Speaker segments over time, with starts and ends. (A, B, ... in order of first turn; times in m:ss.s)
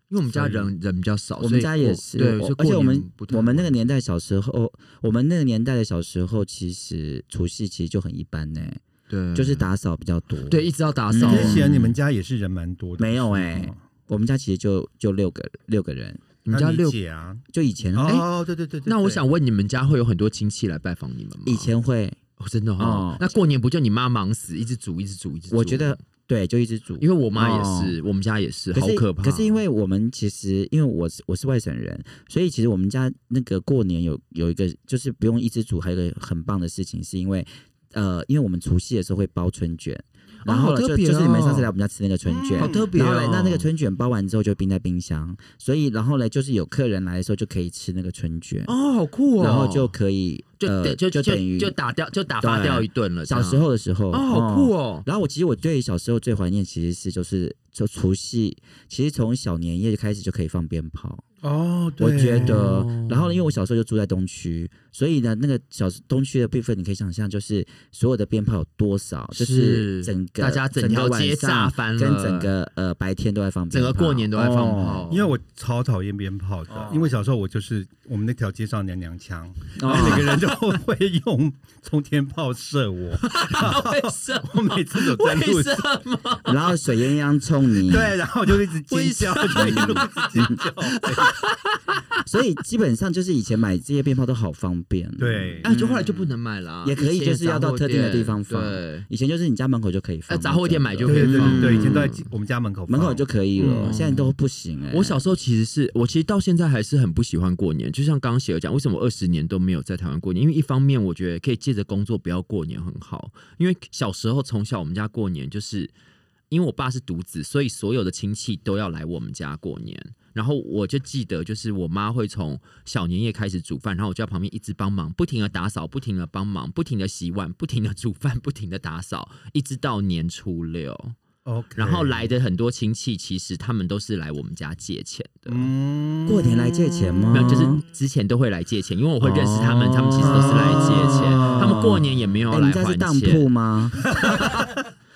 0:00.1-0:03.7 A
0:00.2-0:00.7 B
0:01.4-0:08.8 C
0:09.1-0:09.7 A
0:09.3-0:11.7 C
0:10.5-0:11.9 A
0:11.2-0:13.8 B
0:13.0-0:16.2 C
0:16.4-0:17.0 A
0:16.5-0:17.4 B
0:17.5-0:18.2 C
0:17.9-0:19.2 B
0:18.8-0:21.7 A
0:21.4-0:22.2 C
0:22.4-0:26.0 A
0:22.8-0:23.2 C
0:25.5-0:28.0 C
0:27.0-0:29.6 A
0:28.7-0:48.7 C
0:40.4-0:41.7 A
0:42.3-0:42.9 B
0:42.6-0:43.7 A
0:48.7-0:50.0 A
0:49.4-0:51.7 C
0:50.6-0:55.0 A
0:52.4-1:01.2 C
1:01.4-1:02.7 B
1:02.0-1:15.0 C
1:02.3-1:03.4 A
1:09.3-1:12.5 A
1:13.7-1:15.3 A
1:15.1-1:25.8 B
1:16.7-1:17.1 C
1:19.8-1:20.4 C
1:19.9-1:20.3 A
1:23.2-1:26.9 A
1:26.4-1:28.2 C
1:27.8-1:31.4 B
1:28.7-1:32.0 A
1:29.5-1:30.6 C
1:32.2-1:36.3 C
1:35.2-1:35.7 B
1:35.6-1:39.1 A
1:36.8-1:42.0 C
1:40.3-1:42.2 A
1:41.0-1:44.0 B
1:42.9-1:45.2 C
1:43.8-1:44.3 A
1:44.9-1:55.9 A
1:56.5-2:11.2 A
2:11.4-2:12.3 B
2:11.8-2:15.7 A
2:15.5-2:17.5 B
2:16.2-2:17.8 C
2:17.3-2:23.4 A
2:19.2-2:24.4 C
2:20.2-2:22.1 B
2:24.2-2:24.5 B
2:24.2-2:24.7 A